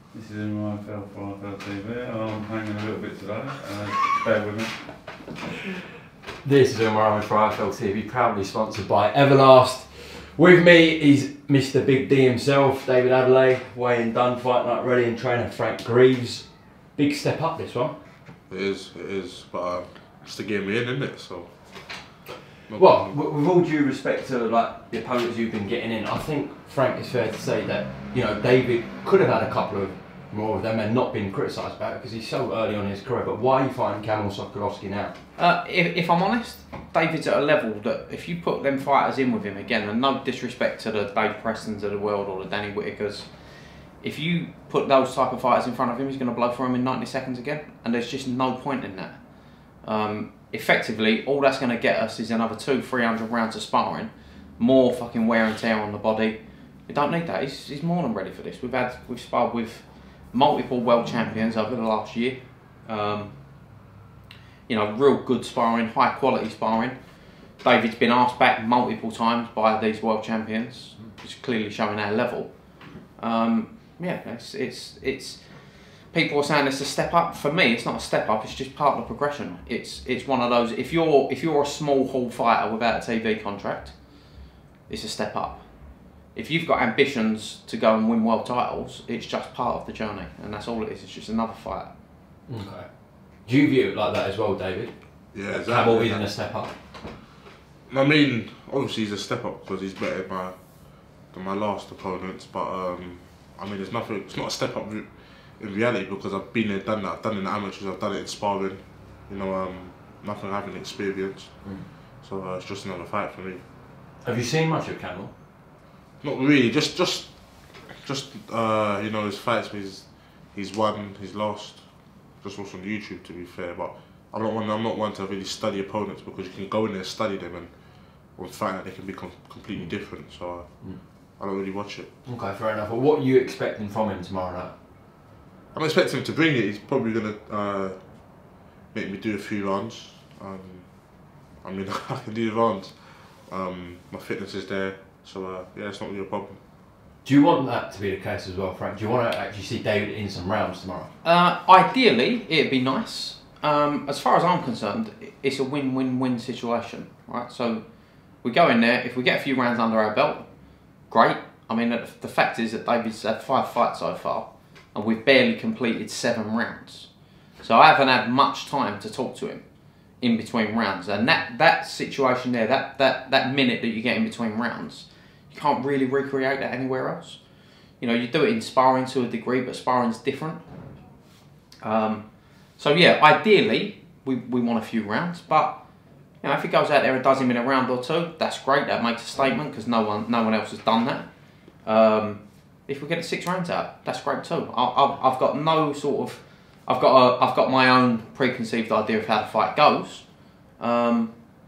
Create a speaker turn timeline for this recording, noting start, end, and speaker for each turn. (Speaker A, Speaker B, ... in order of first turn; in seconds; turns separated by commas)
Speaker A: 0.1-5.0, Speaker B: 6.4-18.0, Speaker C: 18.5-21.5, Speaker C: 22.7-23.2, Speaker B: 22.7-35.1, Speaker D: 35.4-43.3, Speaker D: 44.0-49.2, Speaker D: 49.8-63.3, Speaker D: 64.7-67.0, Speaker D: 67.6-72.5, Speaker D: 73.2-75.5, Speaker D: 76.1-83.9, Speaker D: 84.9-85.6, Speaker D: 86.3-91.9, Speaker B: 92.5-92.9, Speaker B: 93.4-96.7, Speaker C: 95.3-96.3, Speaker C: 97.9-100.5, Speaker C: 101.3-111.5, Speaker C: 112.2-113.6, Speaker B: 114.2-115.3, Speaker C: 116.2-117.3, Speaker C: 117.9-121.8, Speaker C: 122.4-127.7, Speaker C: 128.3-130.7, Speaker C: 131.4-132.1, Speaker B: 132.2-134.7, Speaker C: 135.7-138.0, Speaker C: 138.9-140.9, Speaker C: 141.6-146.6, Speaker B: 147.2-151.1, Speaker D: 151.2-157.8, Speaker D: 158.4-160.5, Speaker D: 161.1-169.6, Speaker D: 170.2-177.4, Speaker D: 178.0-180.6, Speaker D: 181.8-182.2, Speaker D: 182.8-185.8, Speaker D: 186.4-191.3, Speaker D: 191.8-200.3, Speaker D: 200.8-201.3